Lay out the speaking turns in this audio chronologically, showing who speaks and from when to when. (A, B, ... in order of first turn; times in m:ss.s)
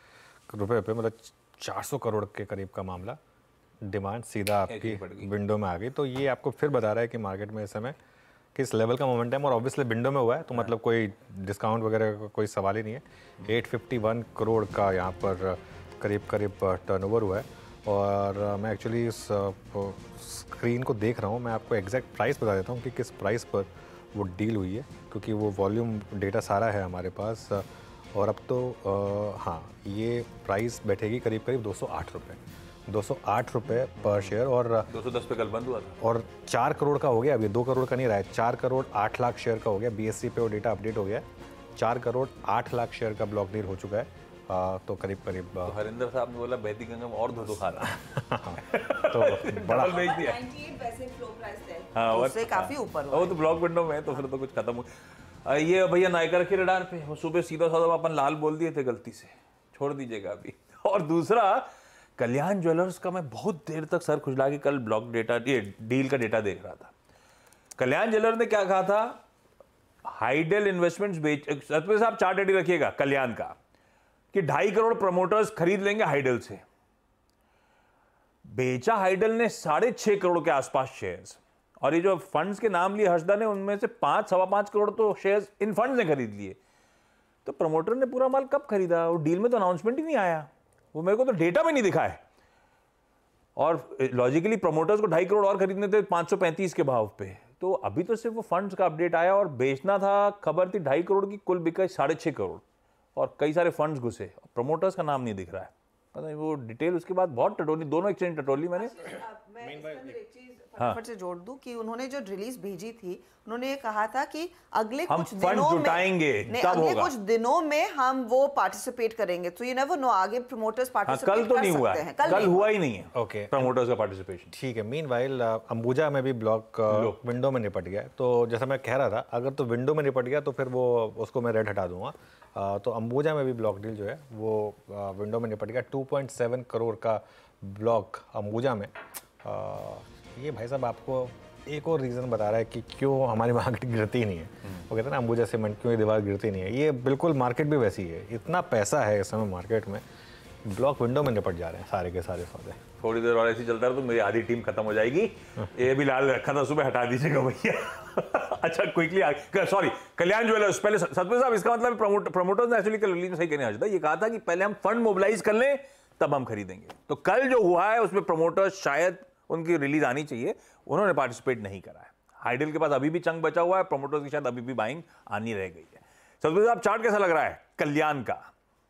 0:00.5-0:03.2 A
0:03.8-0:08.0 A
0:04.7-0:05.3 B
0:08.6-0:34.9 A
0:34.0-0:34.4 B
0:34.9-0:36.0 B
0:36.0-0:45.8 A
0:45.6-0:47.9 B
0:47.8-0:50.0 A
0:48.6-0:50.4 B
0:49.9-0:53.5 C
0:51.9-0:54.9 B
0:55.4-1:01.7 B
1:02.2-1:06.9 B
1:07.8-1:09.2 B
1:10.0-1:13.6 B
1:14.3-1:16.6 B
1:18.5-1:26.6 B
1:27.4-1:32.2 B
1:33.6-1:42.6 B
1:43.2-1:49.0 B
1:48.8-2:02.7 C
1:49.6-1:50.2 A
1:55.1-1:57.1 B
2:01.0-2:04.5 B
2:03.1-2:03.7 A
2:04.5-2:30.0 A
2:06.9-2:07.2 B
2:30.6-2:32.8 A
2:33.0-2:58.5 B